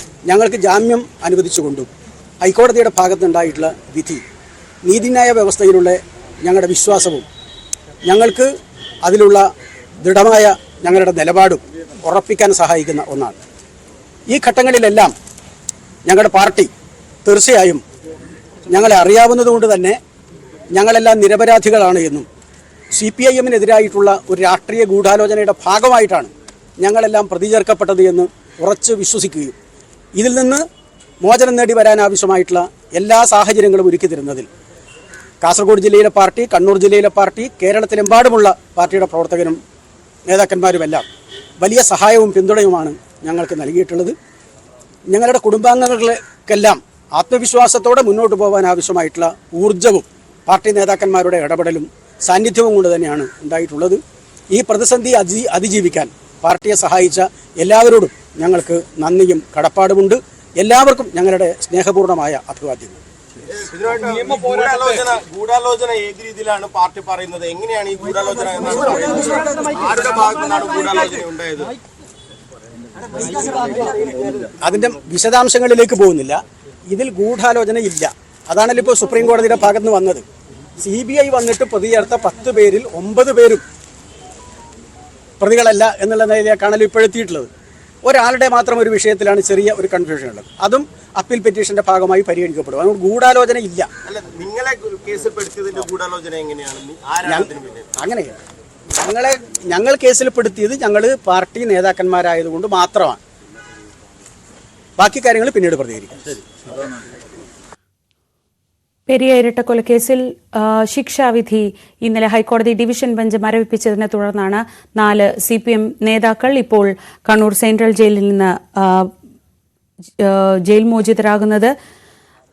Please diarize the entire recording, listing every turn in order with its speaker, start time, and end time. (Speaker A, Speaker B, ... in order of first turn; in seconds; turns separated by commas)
Speaker A: 0.3-1.9, Speaker A: 2.4-4.2, Speaker A: 4.8-7.3, Speaker A: 8.1-8.5, Speaker A: 9.0-9.5, Speaker A: 10.0-13.4, Speaker A: 14.3-15.1, Speaker A: 16.1-16.7, Speaker A: 17.2-17.8, Speaker A: 18.7-20.0, Speaker A: 20.7-22.3, Speaker A: 22.9-29.5, Speaker A: 30.2-30.6, Speaker A: 31.2-34.5, Speaker A: 35.4-39.6, Speaker A: 40.3-41.0, Speaker A: 41.6-44.1, Speaker A: 45.1-54.0, Speaker A: 54.5-63.0, Speaker B: 63.5-71.8, Speaker B: 73.3-74.3, Speaker A: 74.6-80.2, Speaker A: 80.8-83.6, Speaker A: 85.4-87.5, Speaker A: 88.0-93.9, Speaker B: 94.0-97.9, Speaker A: 97.2-98.4, Speaker A: 99.0-103.2, Speaker A: 105.0-106.4, Speaker C: 109.1-119.1, Speaker C: 120.2-121.7